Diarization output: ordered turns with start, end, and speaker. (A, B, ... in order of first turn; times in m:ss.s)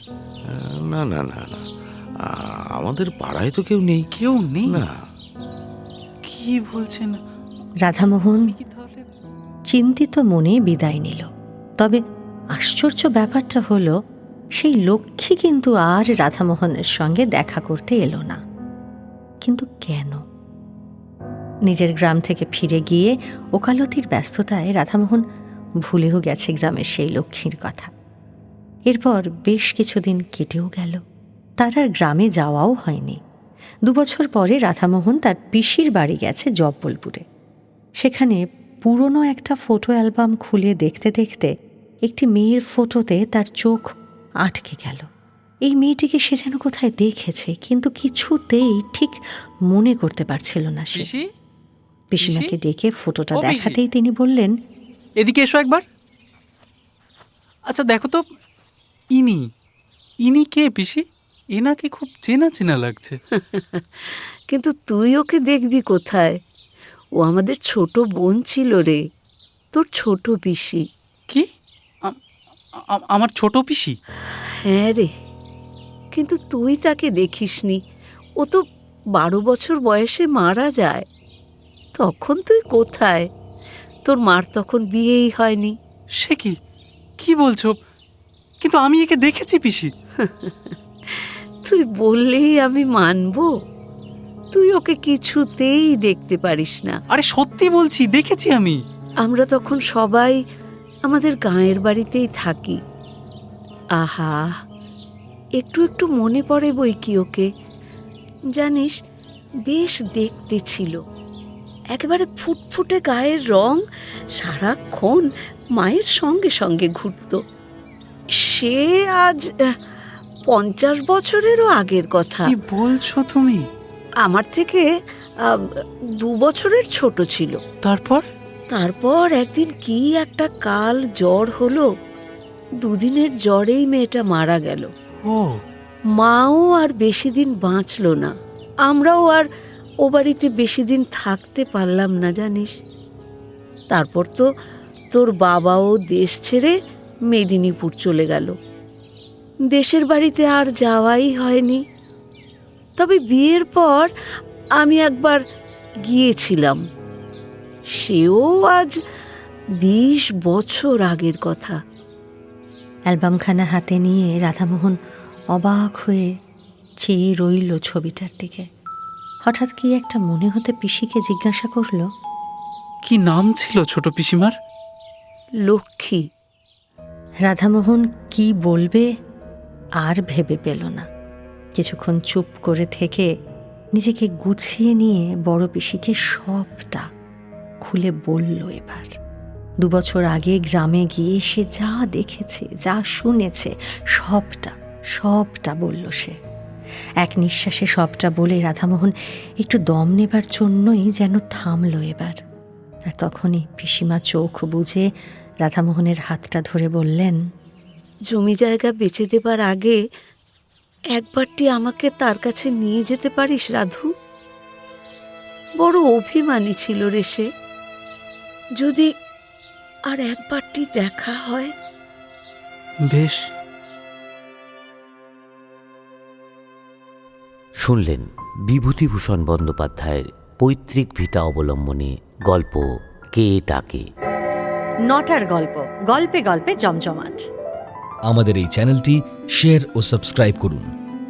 0:00.5-0:01.7 A
0:02.2-0:04.0 A
0:04.2-0:04.8 B
0:04.7-0:05.0 A
0:06.2-0:07.2 B
0:07.8-0:08.5 C
0:08.0-0:09.1 B
0:09.7-0:11.3 C
0:12.6-0:13.9 C
0:14.6-0:18.4 C
0:19.4-0:20.2 C
0:21.7-0:25.2 C
0:25.8-0:27.9 C
0:28.9-0:31.0 C
0:31.6-0:33.2 C
0:33.9-0:37.2 C
0:38.0-0:41.5 C
0:42.1-0:43.9 C
0:44.4-0:45.1 C
0:45.7-0:49.2 C
0:49.7-0:51.1 C
0:51.0-0:51.3 B
0:52.1-0:54.5 C
0:52.2-0:52.5 B
0:53.4-0:53.8 B
0:55.2-0:55.8 B
0:57.7-0:58.2 B
0:59.2-0:59.5 B
1:00.3-1:03.2 B
1:03.4-1:06.4 D
1:07.2-1:09.0 D
1:09.8-1:10.8 D
1:12.9-1:14.0 B
1:14.6-1:15.1 D
1:16.1-1:17.8 D
1:19.2-1:21.0 D
1:22.0-1:23.3 D
1:24.1-1:25.8 D
1:26.2-1:26.6 B
1:27.2-1:27.8 B
1:28.6-1:29.9 B
1:30.2-1:33.5 D
1:34.5-1:37.0 D
1:37.1-1:38.8 B
1:39.2-1:40.4 D
1:41.1-1:42.8 D
1:44.0-1:44.6 D
1:45.6-1:47.5 D
1:48.6-1:48.9 D
1:49.7-1:51.0 D
1:51.9-1:53.8 D
1:54.4-1:57.4 D
1:58.4-1:59.7 D
2:00.5-2:02.5 D
2:02.4-2:03.6 B
2:04.2-2:04.9 D
2:05.4-2:07.6 D
2:07.8-2:08.2 B
2:08.7-2:11.9 D
2:12.8-2:14.9 D
2:15.2-2:15.6 B
2:16.2-2:18.3 D
2:18.9-2:19.5 D
2:20.0-2:22.7 D
2:23.9-2:24.5 D
2:25.1-2:26.8 D
2:27.3-2:28.5 D
2:29.7-2:31.8 D
2:33.0-2:34.1 D
2:34.8-2:35.4 D
2:36.1-2:36.8 D
2:38.0-2:38.9 D
2:39.8-2:41.8 D
2:43.1-2:45.0 C
2:45.6-2:46.3 C
2:47.0-2:48.7 C
2:49.5-2:52.1 C
2:53.1-2:54.6 B
2:55.7-2:56.2 D
2:57.5-2:59.1 C
3:00.0-3:01.1 C
3:01.8-3:03.3 C
3:04.0-3:07.1 C
3:07.8-3:09.1 C
3:09.8-3:16.4 C
3:17.2-3:22.4 C
3:23.1-3:25.0 C
3:25.6-3:27.4 C
3:28.3-3:30.0 D
3:31.2-3:34.1 D
3:35.8-3:37.5 D
3:38.8-3:39.1 D
3:40.1-3:41.7 D
3:43.0-3:43.5 B
3:47.8-3:54.1 E
3:55.1-3:57.4 C
3:58.3-4:00.9 F